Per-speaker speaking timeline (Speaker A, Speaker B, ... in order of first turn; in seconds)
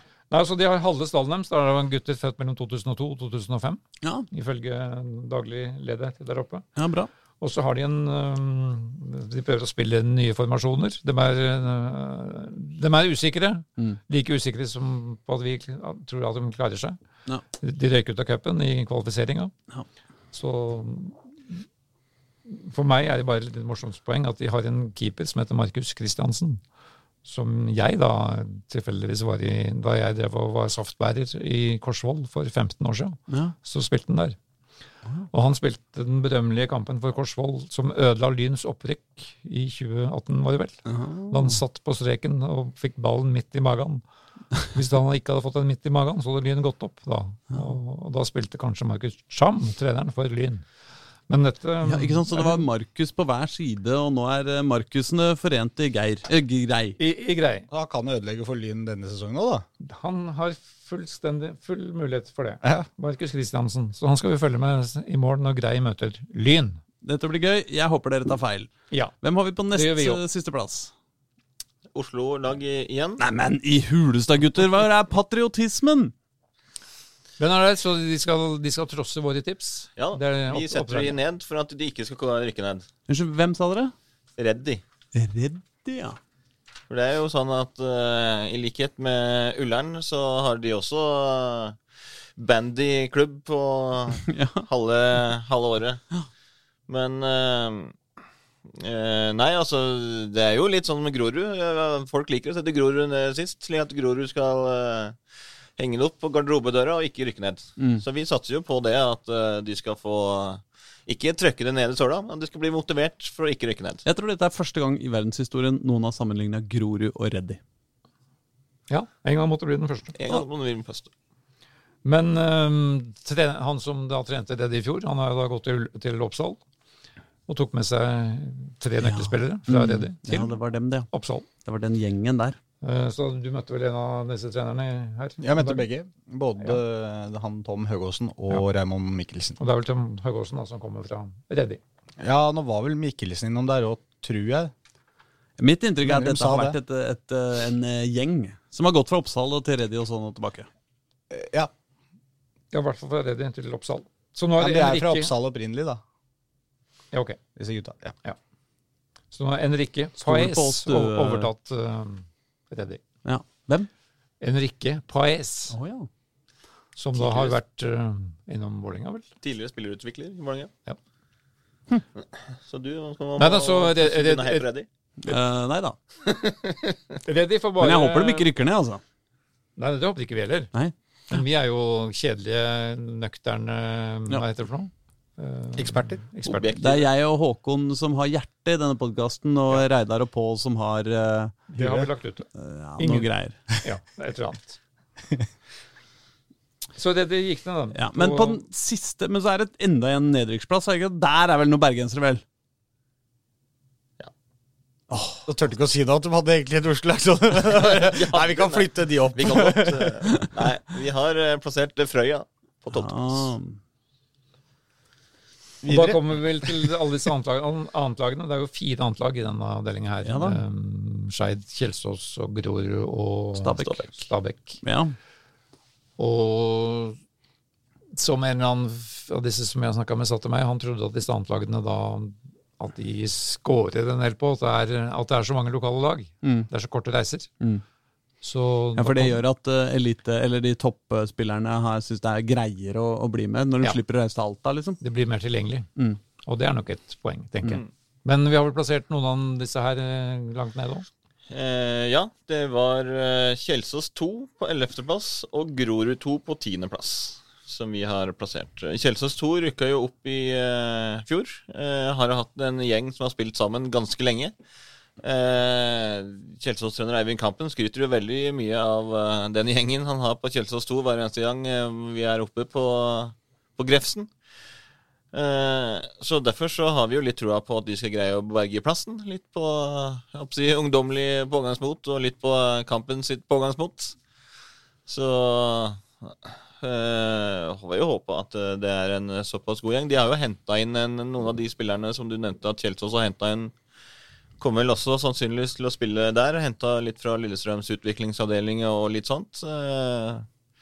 Speaker A: 0.3-6.7, 7.4-17.0, 17.6-19.5, 20.3-21.6, 22.5-26.6, 27.2-34.4, 35.3-44.0, 44.6-50.6, 51.3-52.6, 57.0-57.7, 59.8-66.8, 69.7-70.2, 77.4-81.2, 118.9-120.1, 122.0-126.6, 127.5-130.6, 131.1-131.5, 132.8-135.8, 139.6-141.8, 152.7-155.3, 157.1-157.4, 159.3-163.0, 164.4-165.7, 166.9-169.2, 173.4-174.7, 177.2-178.5, 179.8-180.7, 181.3-186.8, 191.7-194.8, 196.9-198.6, 215.8-224.8, 226.2-227.2, 228.1-237.5, 238.4-239.4, 245.0-245.9, 246.4-251.1
Speaker B: 6.8-7.1, 33.3-33.5, 40.9-41.6, 51.8-57.0, 67.0-68.7, 69.2-70.9, 73.2-76.1, 83.1-83.9, 85.1-86.2, 94.2-94.7, 107.8-108.0, 114.0-117.6, 129.0-131.1, 131.6-132.6, 145.6-150.7, 160.2-161.5, 163.2-163.9, 165.7-166.1, 175.2-175.9, 177.8-179.0, 186.8-191.6, 192.6-193.6, 197.9-202.4, 205.1-205.4, 212.9-213.8, 220.2-220.6, 223.6-224.1, 224.8-225.1, 236.4-236.7, 238.9-245.0
Speaker C: 57.7-59.6, 135.4-139.6, 142.2-144.7, 146.0-146.8, 151.3-151.7, 154.6-156.0, 157.6-158.1, 191.8-192.1, 205.4-210.2, 215.8-216.2
Speaker D: 71.9-73.2, 80.0-82.8, 84.4-84.8, 86.9-91.8, 92.4-96.0, 96.9-97.9, 98.7-105.2, 105.8-114.0, 120.2-121.1, 167.2-167.5, 169.4-170.7, 172.6-174.9, 176.2-177.2, 186.4-187.1, 207.6-213.5, 251.5-264.5, 265.2-274.3, 275.3-284.1, 285.1-293.7, 294.6-300.4